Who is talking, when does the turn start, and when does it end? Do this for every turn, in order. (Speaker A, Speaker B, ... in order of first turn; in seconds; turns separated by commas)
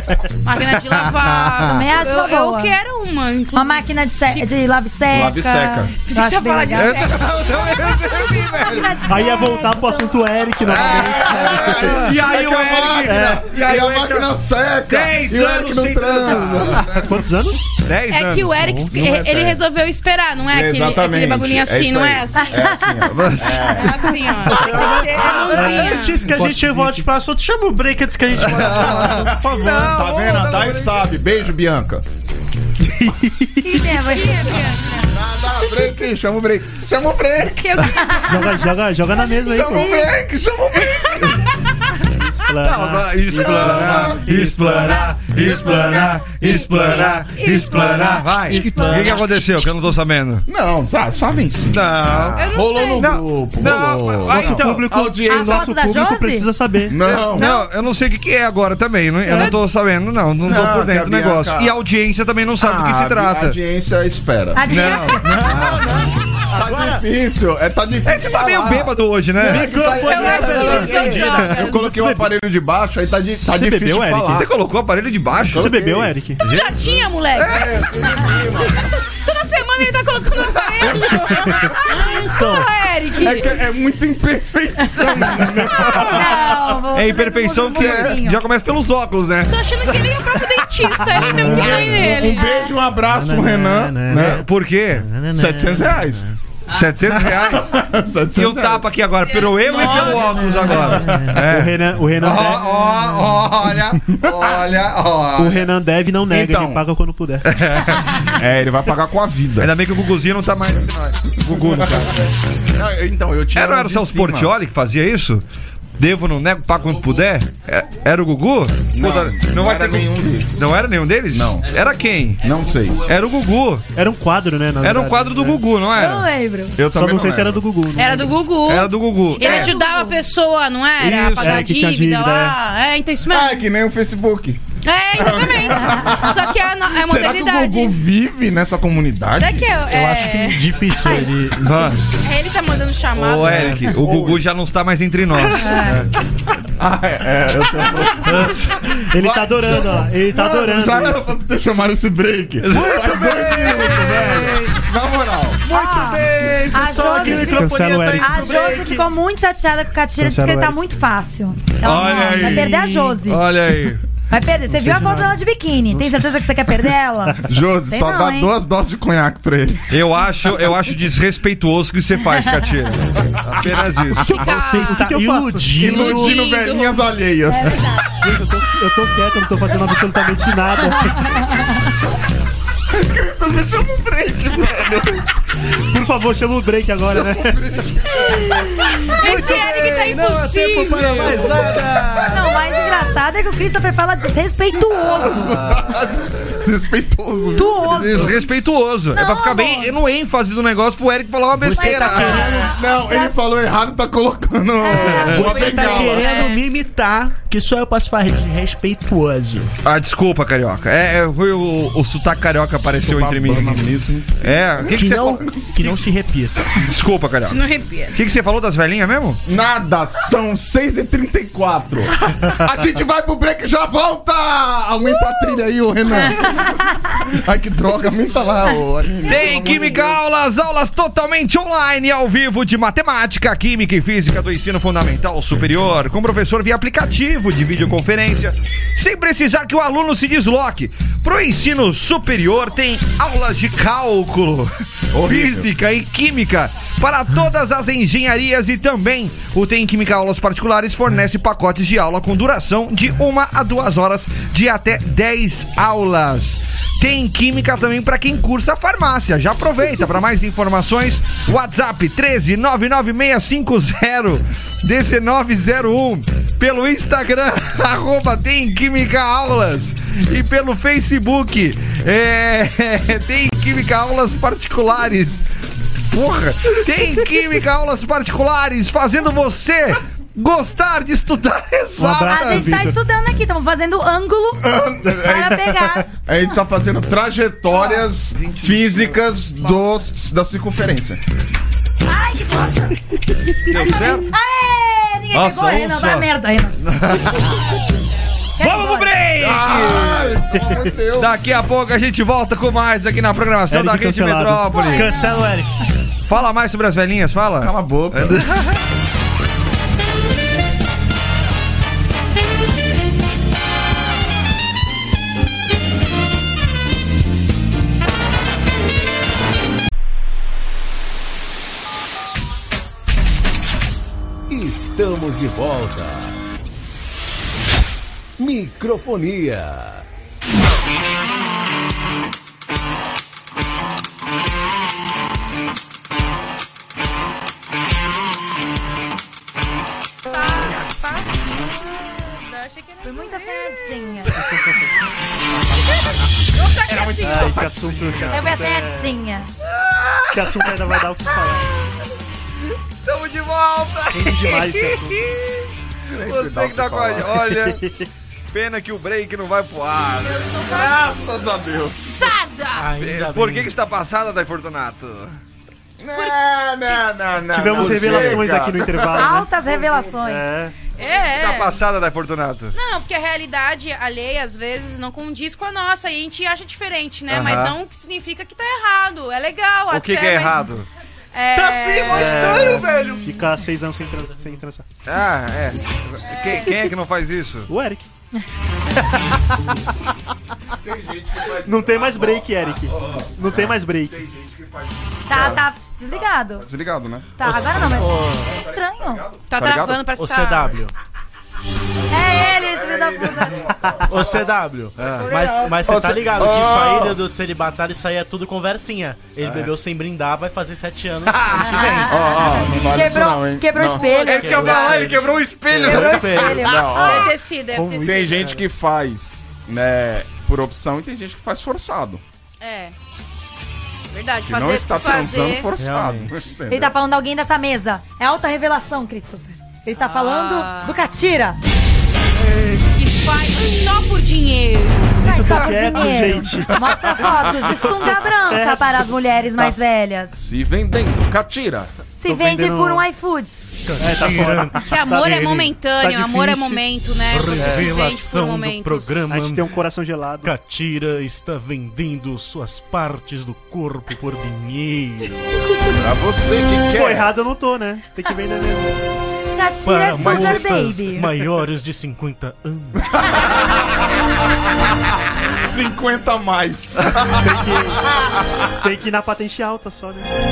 Speaker A: 0.4-4.5, Speaker B: 1.6-2.7, Speaker B: 3.5-7.1, Speaker C: 5.1-5.9, Speaker A: 6.0-7.2, Speaker D: 6.7-9.1, Speaker B: 8.2-10.2, Speaker E: 9.0-12.0, Speaker C: 10.7-17.1, Speaker D: 11.0-14.3, Speaker E: 13.0-13.5, Speaker D: 14.8-17.1, Speaker E: 16.9-17.6, Speaker D: 17.8-18.6, Speaker A: 18.1-22.5, Speaker E: 18.6-18.9, Speaker C: 18.9-19.6, Speaker C: 20.5-25.6, Speaker B: 22.4-23.0, Speaker D: 23.1-23.7, Speaker A: 23.5-26.2, Speaker B: 24.5-25.0, Speaker E: 24.5-27.1, Speaker F: 25.5-30.0, Speaker D: 28.4-31.2, Speaker C: 28.6-32.0, Speaker E: 32.8-33.9, Speaker B: 33.6-35.1, Speaker A: 34.0-35.1, Speaker C: 35.0-38.1, Speaker A: 37.5-38.2, Speaker B: 37.9-38.6, Speaker E: 38.2-40.0, Speaker C: 39.3-41.5, Speaker B: 39.5-40.1, Speaker E: 42.1-46.2, Speaker D: 42.6-50.4, Speaker C: 43.3-44.3, Speaker A: 47.3-48.6, Speaker F: 48.5-49.2, Speaker C: 48.9-49.3, Speaker C: 50.5-55.7, Speaker D: 51.7-52.4, Speaker A: 52.4-53.1, Speaker D: 53.0-55.0, Speaker E: 54.3-57.0, Speaker B: 55.3-56.5, Speaker C: 56.9-57.5, Speaker D: 57.0-63.6, Speaker A: 57.3-57.7, Speaker C: 60.4-61.8, Speaker C: 62.6-65.8, Speaker B: 64.5-65.3, Speaker D: 64.7-65.8, Speaker F: 65.2-67.0, Speaker C: 66.5-74.5, Speaker D: 68.0-71.4, Speaker F: 69.4-71.5, Speaker A: 70.0-71.8, Speaker E: 70.8-72.3, Speaker E: 73.1-74.5, Speaker D: 74.3-75.8, Speaker E: 75.5-76.4, Speaker C: 75.5-76.1, Speaker D: 76.4-78.3, Speaker A: 76.4-83.6, Speaker C: 77.3-78.8, Speaker D: 80.8-81.1, Speaker C: 80.8-82.0, Speaker E: 82.2-82.7, Speaker C: 83.1-86.8, Speaker D: 85.5-90.1, Speaker B: 86.0-88.4, Speaker C: 87.7-88.2, Speaker A: 89.5-92.7, Speaker C: 91.2-94.4, Speaker E: 91.3-92.1, Speaker E: 93.1-94.3, Speaker D: 94.1-95.1, Speaker F: 95.1-96.3, Speaker C: 95.3-96.3, Speaker D: 96.7-97.8, Speaker C: 97.1-98.9, Speaker D: 98.3-105.7, Speaker A: 99.2-101.0, Speaker F: 101.0-101.3, Speaker E: 101.1-102.7, Speaker C: 104.1-104.6, Speaker E: 105.3-107.5, Speaker C: 106.3-106.8, Speaker D: 107.4-108.4, Speaker C: 108.3-109.7, Speaker D: 109.6-112.3, Speaker C: 111.5-112.1, Speaker C: 112.7-114.5, Speaker D: 113.5-115.4, Speaker D: 116.0-123.8, Speaker C: 118.9-120.7, Speaker C: 121.3-121.7, Speaker C: 122.4-123.1, Speaker E: 123.9-125.6, Speaker D: 124.8-126.3, Speaker B: 125.9-126.8, Speaker C: 126.8-127.6, Speaker E: 126.9-128.4, Speaker A: 128.0-133.6, Speaker D: 128.6-129.7, Speaker B: 129.4-130.2, Speaker D: 131.0-131.7, Speaker E: 131.3-132.5, Speaker C: 133.2-134.6, Speaker A: 134.8-138.0, Speaker C: 135.1-139.8, Speaker B: 135.7-136.1, Speaker A: 139.3-140.7, Speaker F: 139.9-141.8, Speaker B: 141.0-141.3, Speaker D: 141.6-142.0, Speaker A: 142.2-143.9, Speaker D: 143.1-145.9, Speaker F: 143.5-144.2, Speaker C: 143.9-144.4, Speaker B: 145.5-146.0, Speaker C: 146.8-155.7, Speaker E: 148.2-148.6, Speaker E: 149.1-151.3, Speaker D: 152.6-154.8, Speaker D: 155.7-157.1, Speaker B: 155.7-163.4, Speaker F: 156.4-159.1, Speaker E: 157.2-158.6, Speaker E: 160.2-160.8, Speaker D: 161.8-164.0, Speaker B: 164.3-168.5, Speaker E: 164.7-166.8, Speaker C: 167.4-169.9, Speaker D: 169.9-174.5, Speaker A: 174.2-175.2, Speaker F: 174.3-176.4, Speaker E: 174.8-175.9, Speaker C: 175.8-177.9, Speaker A: 175.8-177.0, Speaker B: 177.5-178.0, Speaker E: 178.2-181.4, Speaker B: 181.0-181.8, Speaker C: 182.9-185.3, Speaker E: 185.8-187.6, Speaker C: 187.0-189.1, Speaker A: 189.1-191.5, Speaker F: 189.1-192.5, Speaker D: 189.3-190.2, Speaker D: 190.9-191.9, Speaker B: 192.2-195.6, Speaker C: 194.9-198.3, Speaker B: 197.5-198.5, Speaker D: 197.9-202.6, Speaker B: 199.2-199.9, Speaker F: 201.5-202.7, Speaker B: 201.7-203.4, Speaker C: 202.3-206.3, Speaker B: 204.8-206.4, Speaker F: 205.0-209.7, Speaker A: 205.9-206.6, Speaker D: 209.8-213.9, Speaker C: 213.0-216.0, Speaker D: 214.4-215.4, Speaker F: 214.9-216.7, Speaker D: 216.7-219.4, Speaker A: 217.4-218.2, Speaker C: 219.4-230.2, Speaker D: 229.2-275.4, Speaker C: 245.1-245.7, Speaker D: 276.0-282.9, Speaker E: 282.0-283.0, Speaker B: 282.0-286.2, Speaker C: 284.6-291.2, Speaker D: 287.9-289.9, Speaker B: 292.1-292.9, Speaker D: 293.7-294.3, Speaker B: 293.8-296.8, Speaker D: 295.3-297.6, Speaker B: 298.6-299.1, Speaker D: 298.6-300.3, Speaker C: 299.4-301.4, Speaker D: 301.1-305.2, Speaker E: 303.7-305.6, Speaker A: 304.7-305.1, Speaker B: 304.7-305.0, Speaker F: 304.9-305.7, Speaker D: 306.3-308.8, Speaker C: 307.6-308.5, Speaker G: 324.5-326.4, Speaker G: 328.4-330.1, Speaker A: 340.3-343.9, Speaker B: 343.0-344.4, Speaker E: 344.3-344.9, Speaker A: 346.0-347.7, Speaker C: 346.8-348.5, Speaker E: 347.2-349.1, Speaker B: 348.3-349.5, Speaker D: 349.6-351.3, Speaker E: 350.3-351.7, Speaker D: 353.0-357.8, Speaker E: 354.1-355.2, Speaker C: 356.1-357.5, Speaker E: 357.6-357.9, Speaker D: 358.5-360.7, Speaker A: 360.2-361.1, Speaker C: 360.6-362.1, Speaker A: 362.0-362.9, Speaker F: 362.8-363.7, Speaker D: 363.0-365.4, Speaker C: 366.0-369.4, Speaker A: 366.1-367.0, Speaker E: 367.5-370.8, Speaker D: 367.8-368.4, Speaker B: 369.1-370.4, Speaker A: 370.9-371.8, Speaker D: 371.2-372.7, Speaker A: 372.7-380.7, Speaker D: 377.3-377.7, Speaker D: 379.9-380.9, Speaker A: 381.3-383.3, Speaker F: 381.6-382.0, Speaker D: 381.9-383.2, Speaker E: 382.1-384.9, Speaker D: 385.0-387.7, Speaker A: 386.3-386.8, Speaker E: 387.7-388.1, Speaker E: 389.1-389.6, Speaker C: 390.8-400.0, Speaker E: 391.6-394.2, Speaker B: 395.3-396.7, Speaker B: 397.4-399.2, Speaker F: 397.4-398.5, Speaker A: 399.5-400.8, Speaker F: 400.1-400.9, Speaker B: 402.1-403.8, Speaker C: 402.2-407.2, Speaker F: 404.1-412.2, Speaker D: 405.0-405.4, Speaker D: 409.4-409.7, Speaker D: 411.4-411.7, Speaker B: 411.5-414.9, Speaker C: 412.0-417.4, Speaker A: 413.9-415.2, Speaker F: 414.2-416.9, Speaker D: 414.2-415.5, Speaker B: 415.7-417.2, Speaker A: 416.7-418.4, Speaker E: 417.8-418.3, Speaker C: 417.9-422.2, Speaker A: 422.6-422.9, Speaker A: 424.1-425.7, Speaker C: 424.4-426.9, Speaker F: 425.8-426.4, Speaker B: 426.7-431.6, Speaker A: 429.9-431.0, Speaker A: 432.6-435.6, Speaker E: 435.1-436.9, Speaker B: 435.2-440.4, Speaker C: 437.1-437.9, Speaker E: 438.4-439.7, Speaker C: 440.3-441.9, Speaker B: 442.2-443.7, Speaker E: 442.2-443.1, Speaker F: 443.8-444.9, Speaker E: 444.0-446.8, Speaker A: 444.8-449.2, Speaker F: 447.3-449.7, Speaker E: 447.6-447.9, Speaker E: 449.3-450.5, Speaker F: 450.4-455.6, Speaker C: 455.9-457.3, Speaker E: 456.9-459.0, Speaker B: 459.5-461.3, Speaker F: 459.8-463.4, Speaker C: 460.1-460.7, Speaker C: 463.2-463.9, Speaker C: 465.6-468.3, Speaker E: 467.4-468.1, Speaker E: 468.7-470.3